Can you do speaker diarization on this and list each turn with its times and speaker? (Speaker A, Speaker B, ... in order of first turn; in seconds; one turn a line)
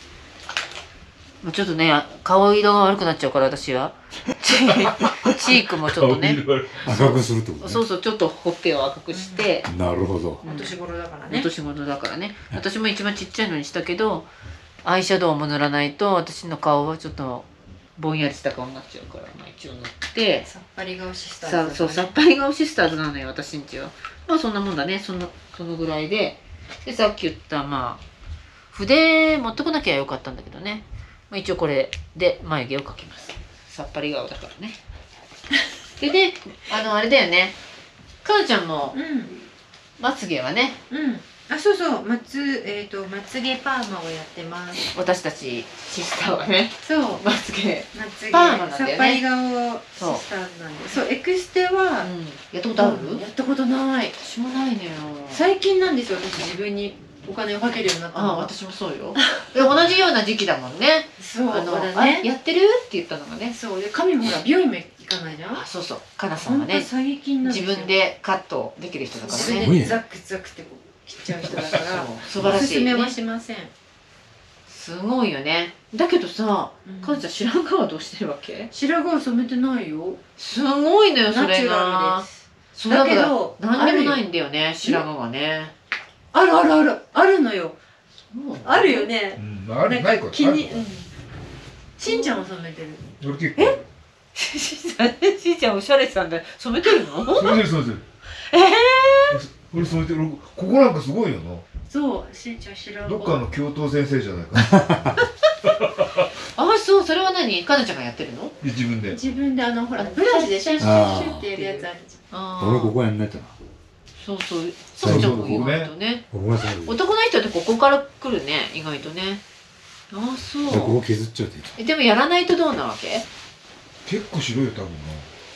Speaker A: 1.4-9.7
Speaker B: 5.8-7.1
Speaker C: 6.8-7.8
Speaker D: 9.1-9.5
Speaker C: 9.7-10.4
Speaker A: 10.4-10.7
Speaker D: 10.4-11.5
Speaker A: 11.3-14.3
Speaker A: 14.8-20.5
Speaker D: 20.4-22.1
Speaker A: 21.4-28.0
Speaker A: 28.7-34.8
Speaker A: 36.0-37.5
Speaker A: 38.2-39.0
Speaker D: 38.9-39.3
Speaker A: 40.0-40.8
Speaker D: 40.9-44.8
Speaker A: 44.9-49.2
Speaker D: 46.8-47.2
Speaker D: 47.9-52.1
Speaker A: 49.9-50.2
Speaker A: 52.0-53.2
Speaker D: 52.7-54.1
Speaker A: 54.2-55.4
Speaker D: 55.3-58.5
Speaker A: 58.1-63.5
Speaker D: 61.2-62.3
Speaker D: 63.5-65.6
Speaker A: 65.5-66.9
Speaker D: 66.4-67.9
Speaker A: 67.4-69.7
Speaker D: 69.1-73.7
Speaker C: 69.5-69.9
Speaker A: 71.6-73.1
Speaker A: 74.7-78.7
Speaker D: 76.8-77.2
Speaker D: 78.7-80.2
Speaker A: 80.4-85.7
Speaker D: 81.3-84.2
Speaker D: 86.3-87.8
Speaker A: 88.3-89.1
Speaker D: 88.6-91.1
Speaker B: 89.4-90.8
Speaker D: 92.0-93.0
Speaker A: 92.0-92.4
Speaker B: 93.2-93.8
Speaker A: 94.3-97.6
Speaker B: 97.3-98.0
Speaker A: 98.5-99.4
Speaker B: 99.3-101.6
Speaker D: 101.9-103.4
Speaker B: 103.0-105.1
Speaker C: 104.6-105.1
Speaker A: 106.5-108.5
Speaker B: 108.6-109.2
Speaker D: 109.1-112.2
Speaker A: 110.0-113.0
Speaker C: 110.8-111.5
Speaker C: 112.6-113.5
Speaker A: 114.2-116.2
Speaker B: 115.0-115.9
Speaker C: 115.0-115.7
Speaker C: 116.3-117.0
Speaker A: 116.8-119.4
Speaker A: 120.1-121.0
Speaker C: 120.7-121.7
Speaker A: 121.8-123.2
Speaker B: 124.0-125.3